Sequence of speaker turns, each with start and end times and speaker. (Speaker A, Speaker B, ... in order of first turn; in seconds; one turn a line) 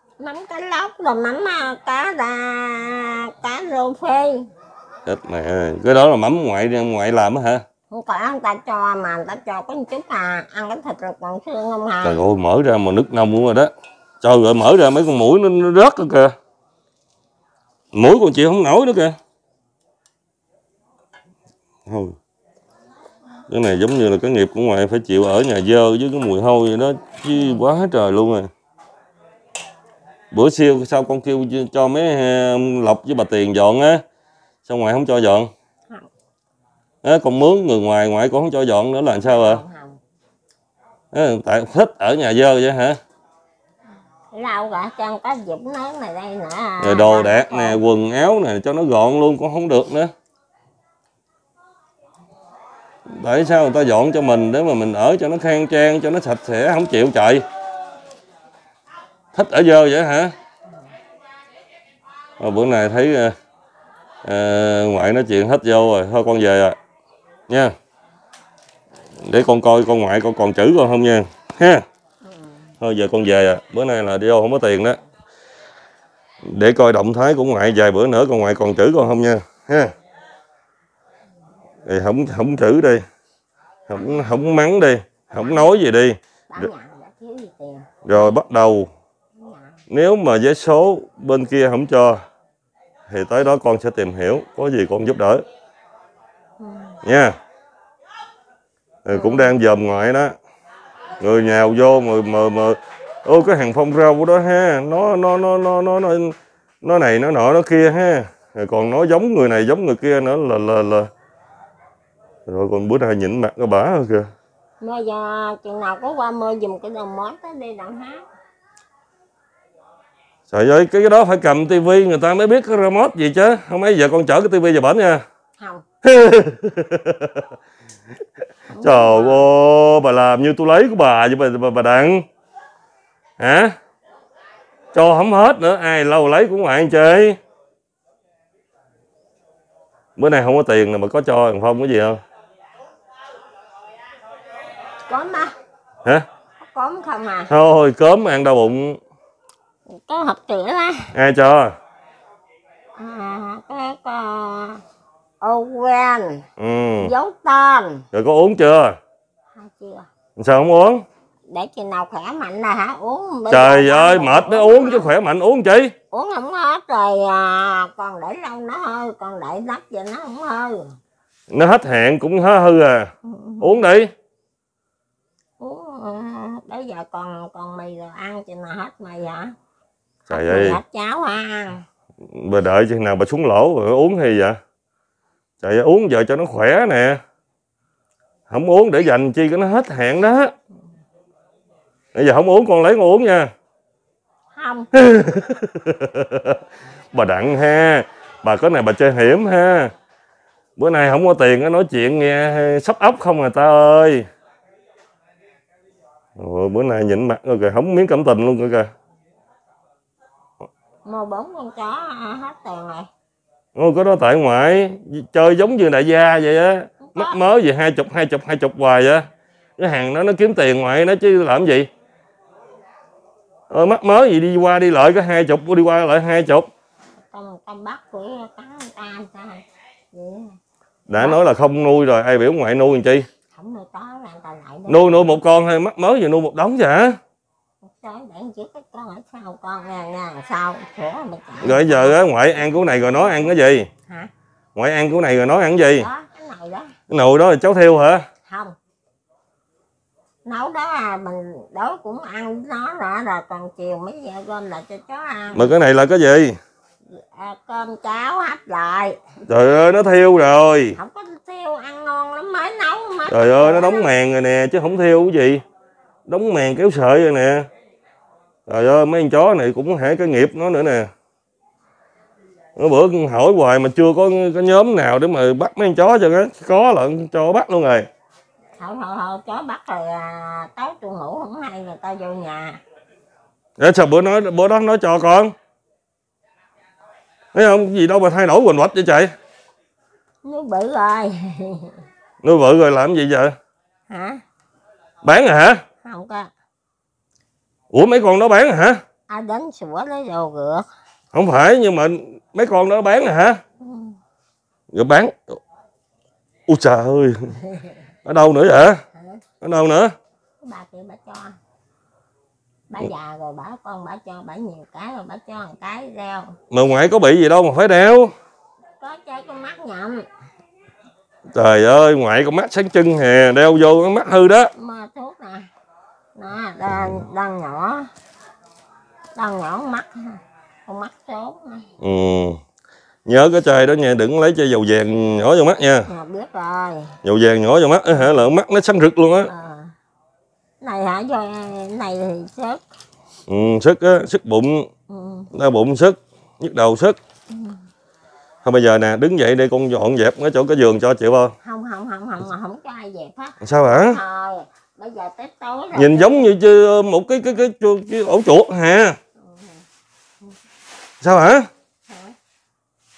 Speaker A: 0.2-4.5
Speaker B: 5.0-7.6
Speaker A: 7.9-12.2
Speaker B: 12.0-16.3
Speaker B: 17.9-19.1
Speaker B: 21.9-22.1
Speaker B: 23.5-28.5
Speaker B: 30.3-34.0
Speaker B: 34.6-35.5
Speaker B: 37.0-39.6
Speaker A: 39.2-40.0
Speaker B: 41.1-43.0
Speaker A: 44.3-47.8
Speaker B: 46.8-50.1
Speaker B: 53.1-57.4
Speaker B: 59.3-60.3
Speaker B: 62.4-63.3
Speaker B: 64.2-66.8
Speaker B: 67.5-67.7
Speaker B: 69.2-71.8
Speaker A: 72.2-72.7
Speaker B: 72.8-75.0
Speaker B: 76.4-79.9
Speaker B: 81.8-83.0
Speaker B: 83.9-86.7
Speaker A: 85.4-85.6
Speaker A: 86.5-88.3
Speaker B: 88.0-88.9
Speaker A: 89.4-89.8
Speaker B: 89.9-92.2
Speaker B: 93.1-95.4
Speaker A: 96.6-97.0
Speaker B: 97.0-97.4
Speaker B: 99.0-100.3
Speaker A: 99.1-99.5
Speaker B: 101.2-111.1
Speaker B: 112.5-114.2
Speaker A: 114.8-118.2
Speaker B: 120.5-125.2
Speaker A: 125.6-125.8
Speaker B: 126.0-127.5
Speaker A: 128.7-129.5
Speaker B: 128.8-132.2
Speaker B: 133.4-133.7
Speaker B: 134.9-137.4
Speaker B: 140.2-142.2
Speaker A: 145.1-145.5
Speaker A: 146.6-147.5
Speaker B: 147.5-149.0
Speaker A: 149.9-151.1
Speaker B: 151.1-151.7
Speaker A: 152.9-154.8
Speaker A: 155.4-156.4
Speaker B: 156.6-157.1
Speaker A: 157.0-158.0
Speaker B: 158.1-159.0
Speaker A: 159.5-160.1
Speaker B: 160.4-161.0
Speaker A: 161.5-165.1
Speaker B: 163.5-165.9
Speaker A: 166.1-170.9
Speaker B: 171.5-174.1
Speaker A: 173.2-173.8
Speaker A: 175.6-179.5
Speaker B: 180.3-180.8
Speaker A: 180.3-181.8
Speaker B: 182.3-184.6
Speaker B: 185.6-187.2
Speaker B: 188.5-190.5
Speaker B: 192.1-193.5
Speaker A: 194.5-194.9
Speaker B: 194.9-196.6
Speaker B: 197.1-199.9
Speaker B: 200.8-204.2
Speaker B: 206.4-208.9
Speaker A: 211.0-213.1
Speaker B: 213.8-219.3
Speaker A: 217.0-217.4
Speaker B: 219.8-221.9
Speaker B: 223.7-226.7
Speaker A: 227.2-229.6
Speaker A: 230.1-230.5
Speaker B: 231.1-233.3
Speaker A: 233.5-235.4
Speaker B: 234.9-237.2
Speaker A: 237.8-242.2
Speaker B: 241.6-243.9
Speaker A: 242.8-243.5
Speaker B: 244.8-246.1
Speaker A: 245.9-246.9
Speaker B: 247.1-248.2
Speaker A: 248.4-248.7
Speaker A: 250.4-255.7
Speaker B: 255.5-256.6
Speaker A: 257.1-259.2
Speaker B: 259.5-261.0
Speaker A: 260.9-264.1
Speaker B: 263.3-265.6
Speaker B: 266.3-267.7
Speaker B: 268.6-271.1
Speaker B: 272.8-278.1
Speaker A: 278.8-282.8
Speaker B: 283.8-285.5
Speaker B: 287.5-289.3
Speaker A: 290.4-292.0
Speaker B: 292.4-293.5
Speaker A: 294.1-294.4
Speaker B: 295.2-295.8
Speaker A: 296.0-296.5
Speaker B: 297.9-299.0
Speaker A: 299.3-300.9
Speaker B: 301.3-303.6
Speaker A: 303.8-304.2
Speaker B: 304.9-305.6
Speaker B: 306.7-307.6
Speaker A: 307.7-307.9
Speaker B: 308.2-309.0
Speaker A: 309.1-309.4
Speaker B: 309.6-310.1
Speaker A: 310.6-311.5
Speaker A: 312.9-316.5
Speaker B: 316.7-318.3
Speaker A: 319.0-320.2
Speaker B: 321.5-324.7
Speaker A: 324.8-325.7
Speaker A: 326.4-328.1
Speaker A: 329.4-331.9
Speaker B: 332.0-332.6
Speaker B: 333.2-336.1
Speaker A: 336.1-337.2
Speaker B: 337.2-339.5
Speaker A: 339.5-339.9
Speaker A: 340.8-342.8
Speaker B: 343.5-344.9
Speaker A: 345.1-345.5
Speaker B: 345.5-347.2
Speaker A: 347.5-347.8
Speaker B: 348.6-351.5
Speaker A: 351.6-356.5
Speaker B: 353.6-354.2
Speaker B: 355.9-359.2
Speaker A: 359.4-359.8
Speaker B: 361.2-361.7
Speaker A: 362.1-362.3